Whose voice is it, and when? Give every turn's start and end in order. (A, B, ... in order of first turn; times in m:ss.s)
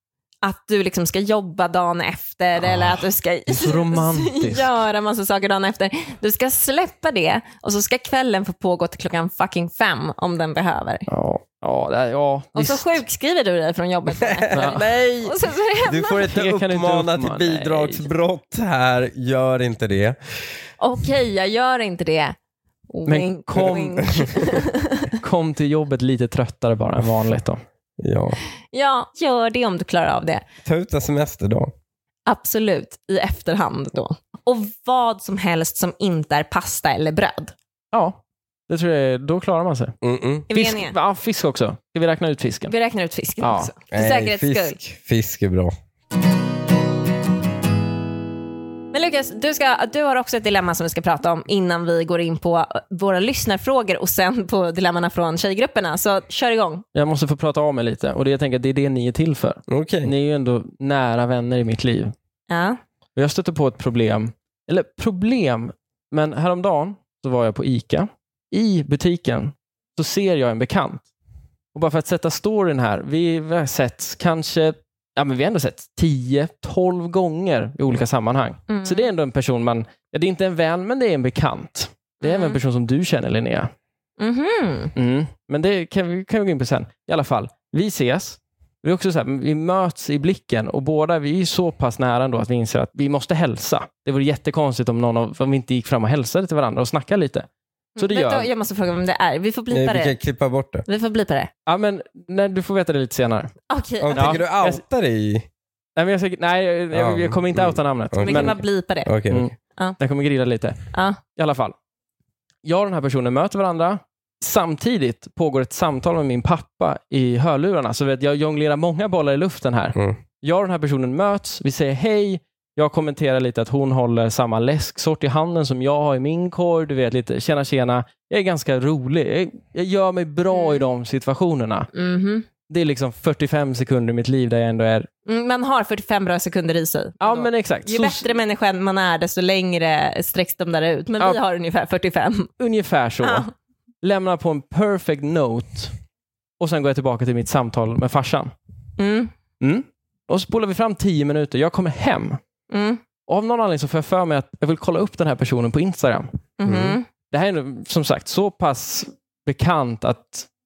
0:00.4-0:11.0 A
0:02.7-0:04.7 B
0:11.1-0:13.0 B
0:12.5-0:16.2 A
0:14.2-0:20.2 C
0:14.5-0:14.8 B
0:16.2-0:18.0 B
0:20.8-0:22.4 A
0:22.9-0:25.1 A
0:23.0-0:24.5 B
0:24.1-0:24.4 C
0:25.1-0:27.6 B
0:28.0-0:28.4 C
0:28.7-0:30.4 A
0:30.6-0:31.7 C
0:32.3-0:37.5 A
0:37.9-0:40.0 B
0:40.0-0:40.5 C
0:40.5-0:41.0 A
0:40.5-0:42.7 B
0:42.7-0:44.8 A
0:43.4-0:43.7 B
0:43.9-0:45.7 C
0:48.9-0:56.8 A
0:56.9-1:02.1 B
0:59.7-1:00.1 C
1:02.5-1:02.8 A
1:03.2-1:11.0 B
1:11.7-1:23.7 B
1:18.7-1:19.1 A
1:22.2-1:22.6 A
1:24.2-1:24.9 A
1:25.0-1:37.5 B
1:38.0-1:40.1 A
1:38.0-1:38.5 B
1:39.7-1:40.8 C
1:40.9-1:41.5 A
1:41.7-1:43.5 B
1:43.7-1:44.4 A
1:44.0-1:45.5 C
1:44.1-1:44.8 B
1:46.0-1:48.6 B
1:46.9-1:49.4 C
1:48.2-1:49.1 A
1:49.3-1:51.7 B
1:50.9-1:51.2 A
1:52.6-2:11.9 B
2:10.5-2:10.8 A
2:11.9-2:12.5 A
2:12.7-2:15.1 B
2:15.3-2:22.5 A
2:17.2-2:18.3 B
2:22.6-2:23.4 B
2:23.2-2:23.5 A
2:24.0-2:25.9 B
2:26.6-2:28.5 B
2:29.0-2:29.3 A
2:29.6-2:32.4 B
2:32.7-2:33.0 A
2:33.3-2:36.3 B
2:36.6-2:37.1 A
2:36.6-2:37.0 C
2:37.3-2:40.5 B